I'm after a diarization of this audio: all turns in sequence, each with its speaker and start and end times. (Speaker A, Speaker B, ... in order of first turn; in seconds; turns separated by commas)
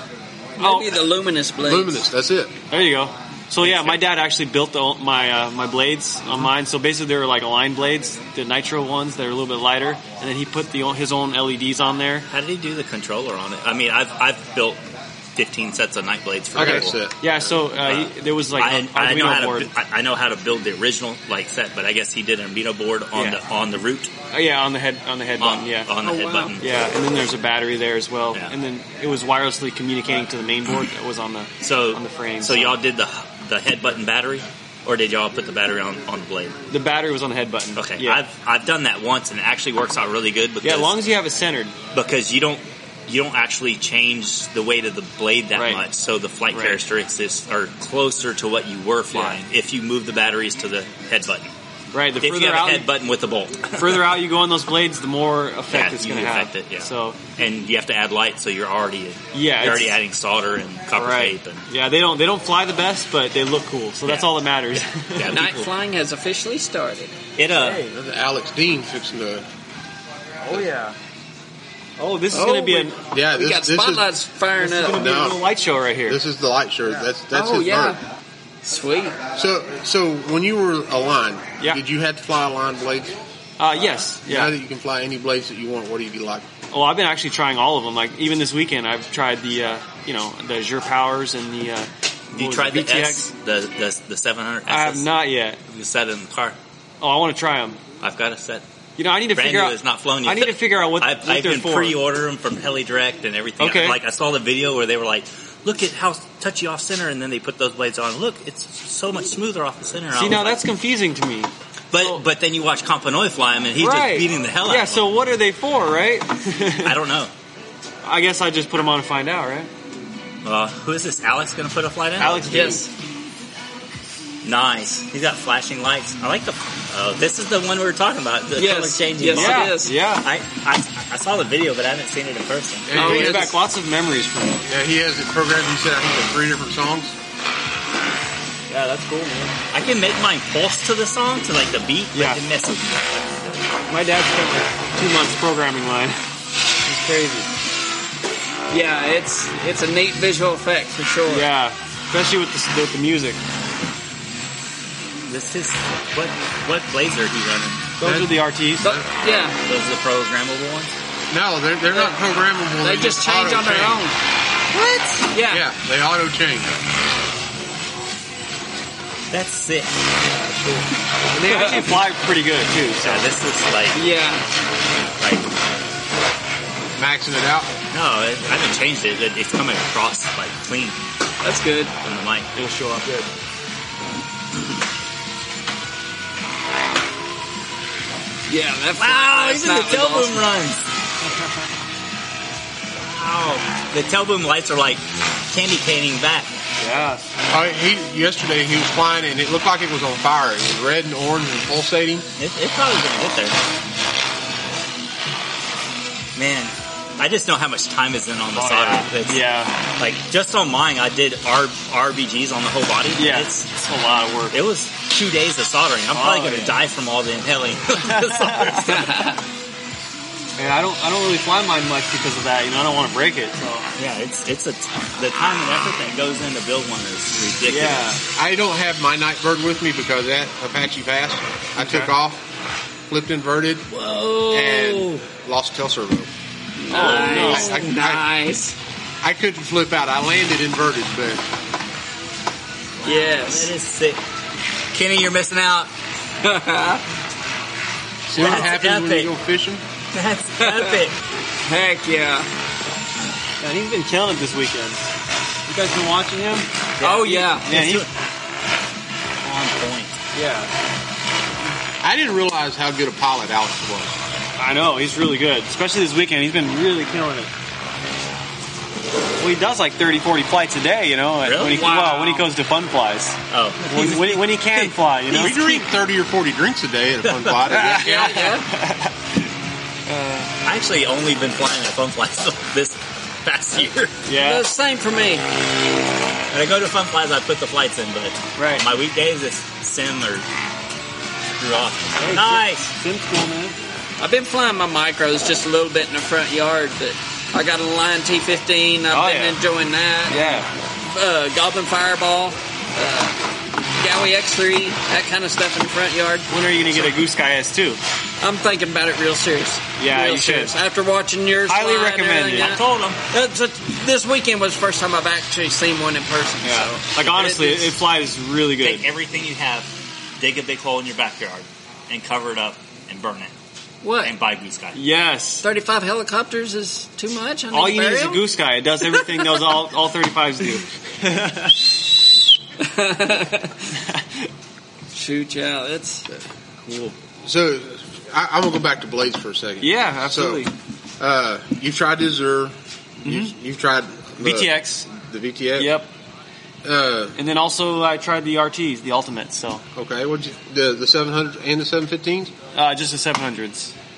Speaker A: 0.6-1.0, Speaker B: 0.6-2.0, Speaker C: 1.6-2.5, Speaker A: 2.7-12.3, Speaker D: 3.6-4.0, Speaker D: 12.3-14.8, Speaker D: 15.3-17.0, Speaker C: 16.5-17.3, Speaker A: 16.6-19.7, Speaker D: 17.8-24.1, Speaker A: 24.3-32.8, Speaker D: 25.4-26.6, Speaker D: 31.6-36.6, Speaker A: 36.7-38.2, Speaker D: 37.8-41.0, Speaker A: 40.6-41.7, Speaker D: 41.9-51.5, Speaker A: 45.5-45.8, Speaker A: 46.5-46.8, Speaker A: 49.1-49.4, Speaker A: 51.9-52.9, Speaker D: 52.2-54.2, Speaker A: 53.8-57.2, Speaker D: 55.7-61.6, Speaker A: 59.3-60.0, Speaker A: 60.9-65.4, Speaker D: 65.1-65.7, Speaker B: 65.3-67.2, Speaker D: 67.4-67.8, Speaker A: 67.5-67.9, Speaker C: 67.9-69.4, Speaker A: 70.4-71.0, Speaker A: 72.0-73.0, Speaker B: 72.3-75.0, Speaker C: 73.1-74.1, Speaker A: 74.5-76.2, Speaker C: 74.9-75.4, Speaker C: 76.1-78.0, Speaker B: 77.3-78.0, Speaker B: 78.6-79.2, Speaker C: 79.3-83.2, Speaker A: 83.6-84.5, Speaker C: 84.3-86.5, Speaker A: 86.7-93.3, Speaker D: 92.3-95.1, Speaker A: 94.7-95.6, Speaker D: 95.7-96.6, Speaker A: 97.0-97.8, Speaker D: 98.0-98.6, Speaker A: 99.0-102.0, Speaker D: 99.3-110.6, Speaker A: 103.6-104.0, Speaker A: 110.1-112.2, Speaker D: 111.9-115.1, Speaker A: 113.8-117.0, Speaker D: 116.8-117.3, Speaker A: 118.0-119.7, Speaker D: 120.4-122.8, Speaker A: 122.2-122.9, Speaker B: 122.5-122.8, Speaker D: 124.4-133.0, Speaker B: 128.6-129.9, Speaker A: 129.3-130.2, Speaker C: 132.9-133.5, Speaker A: 132.9-134.6, Speaker B: 133.0-133.5, Speaker C: 134.7-137.1, Speaker A: 138.7-139.6, Speaker D: 139.7-143.7, Speaker A: 142.1-142.4, Speaker A: 143.9-146.2, Speaker A: 146.8-147.5, Speaker B: 148.7-151.5, Speaker A: 151.3-153.4, Speaker D: 155.2-157.9, Speaker A: 158.0-159.0, Speaker C: 158.0-159.0, Speaker B: 158.8-159.6, Speaker D: 159.4-160.9, Speaker C: 161.3-164.0, Speaker B: 161.9-162.2, Speaker B: 162.8-164.1, Speaker D: 164.7-165.3, Speaker B: 165.3-165.6, Speaker C: 165.5-166.8, Speaker D: 169.3-169.9, Speaker A: 171.3-173.3, Speaker B: 171.4-171.9, Speaker D: 173.0-174.0, Speaker B: 173.9-174.4, Speaker D: 175.2-175.5, Speaker C: 176.9-177.7, Speaker D: 177.9-181.0, Speaker B: 181.4-181.9, Speaker D: 182.0-182.5, Speaker A: 182.5-183.2, Speaker B: 188.5-190.4, Speaker D: 189.0-190.9, Speaker D: 193.0-196.5, Speaker A: 196.8-197.2, Speaker C: 197.5-202.2, Speaker D: 202.4-203.6, Speaker D: 206.3-209.4, Speaker A: 208.5-209.8, Speaker D: 210.0-213.7, Speaker A: 213.2-214.6, Speaker D: 214.5-219.3, Speaker A: 216.1-216.8, Speaker A: 218.0-218.9, Speaker B: 218.9-219.4, Speaker A: 220.6-223.9, Speaker D: 224.0-228.2, Speaker A: 227.6-228.2, Speaker C: 228.3-232.4, Speaker A: 231.8-232.1, Speaker C: 233.1-233.9, Speaker D: 233.9-234.9, Speaker C: 234.5-236.3, Speaker B: 236.8-238.8, Speaker A: 236.9-237.7, Speaker C: 237.0-238.2, Speaker D: 237.1-237.4, Speaker C: 239.2-241.4, Speaker D: 243.0-244.2, Speaker B: 243.0-243.7, Speaker D: 244.9-245.9, Speaker B: 246.4-247.0, Speaker C: 248.3-249.8, Speaker D: 248.3-249.3, Speaker D: 250.1-251.2, Speaker B: 250.6-251.0, Speaker B: 251.6-252.5, Speaker A: 253.6-255.1, Speaker A: 255.7-256.7, Speaker D: 257.0-258.1, Speaker B: 257.0-257.7, Speaker A: 257.5-258.1, Speaker D: 259.4-260.2, Speaker A: 260.3-260.7, Speaker C: 262.0-264.1, Speaker A: 264.6-267.5, Speaker A: 269.4-275.9, Speaker D: 271.4-272.4, Speaker D: 273.5-274.9, Speaker C: 275.3-278.1, Speaker D: 277.3-277.6, Speaker A: 277.7-279.4, Speaker B: 277.9-278.7, Speaker A: 280.1-280.5, Speaker D: 280.6-284.2, Speaker A: 284.2-284.7, Speaker B: 284.3-285.4, Speaker D: 286.5-290.4, Speaker A: 288.6-288.9, Speaker D: 291.5-292.9, Speaker A: 292.2-293.8, Speaker B: 294.2-303.4, Speaker A: 299.1-299.6, Speaker A: 300.3-300.7, Speaker B: 303.9-307.1, Speaker A: 306.5-308.0, Speaker B: 308.4-317.9, Speaker A: 310.0-310.7, Speaker A: 311.7-312.8, Speaker D: 312.6-313.2, Speaker A: 316.6-319.1, Speaker D: 318.8-323.5, Speaker B: 324.0-324.3, Speaker D: 324.2-325.0, Speaker A: 324.9-325.6, Speaker B: 325.6-328.5, Speaker A: 327.7-331.8, Speaker B: 332.8-333.9, Speaker A: 334.0-334.5, Speaker B: 335.1-336.4, Speaker C: 337.4-345.9, Speaker A: 339.8-340.7, Speaker A: 343.2-343.5, Speaker A: 344.4-345.1, Speaker A: 345.8-346.1, Speaker C: 346.8-347.4, Speaker A: 347.4-349.8, Speaker C: 349.9-352.5, Speaker A: 352.7-353.9